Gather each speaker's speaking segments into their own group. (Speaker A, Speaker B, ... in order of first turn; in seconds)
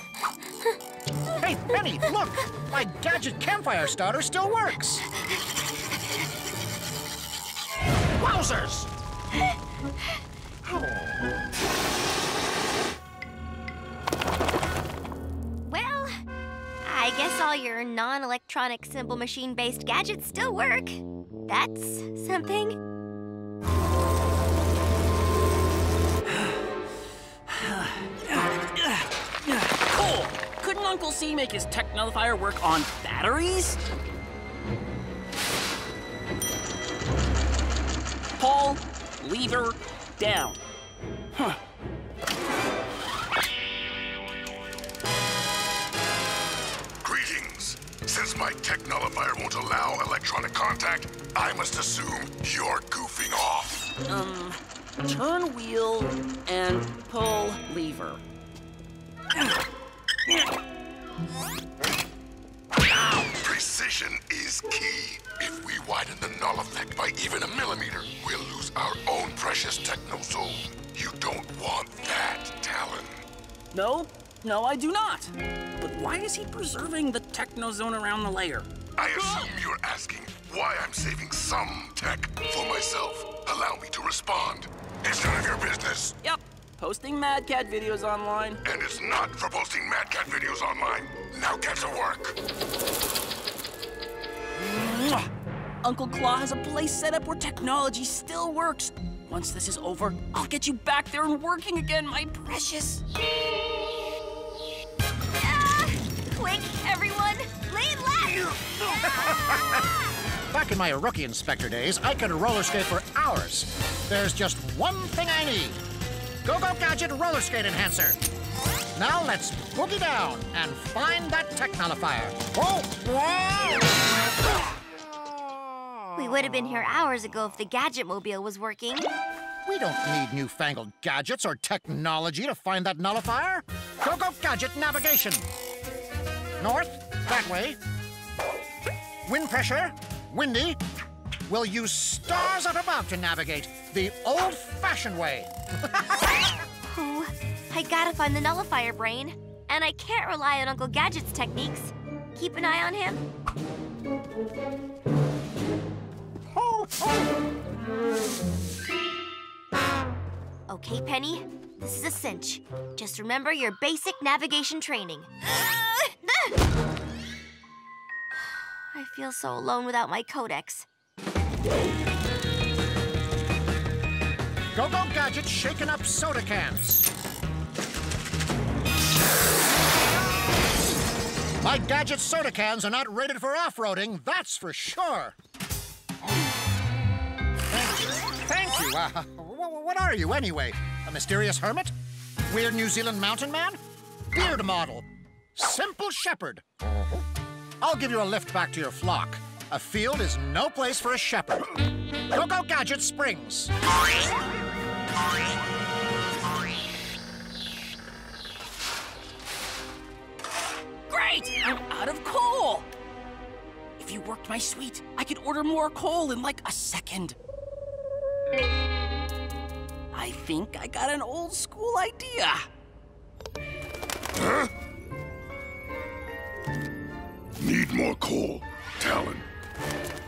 Speaker A: 1.4-5.0, 8.2-8.9, 109.1-109.8, 110.5-115.8, 116.4-118.2, 119.0-124.0, 125.5-126.2, 129.6-135.5, 136.6-137.8, 139.2-140.8, 141.5-146.5, 156.5-157.2, 174.7-177.1, 181.6-185.3, 187.7-191.9, 192.5-193.8, 194.3-196.6, 197.8-201.7, 202.3-203.7
Speaker B: 15.6-16.2, 16.8-22.8, 105.4-109.1, 126.1-129.1, 146.9-153.2, 160.7-166.5, 168.9-170.9
Speaker C: 26.3-26.6, 27.5-33.8, 38.4-40.6, 41.3-41.6, 54.1-58.2, 73.7-79.5, 86.2-88.6, 94.5-95.3, 95.8-103.0, 211.1-212.9, 214.0-217.3, 220.1-222.6
Speaker D: 47.0-53.9, 62.9-73.2, 79.0-86.2, 88.6-92.4, 224.3-224.7, 227.6-229.5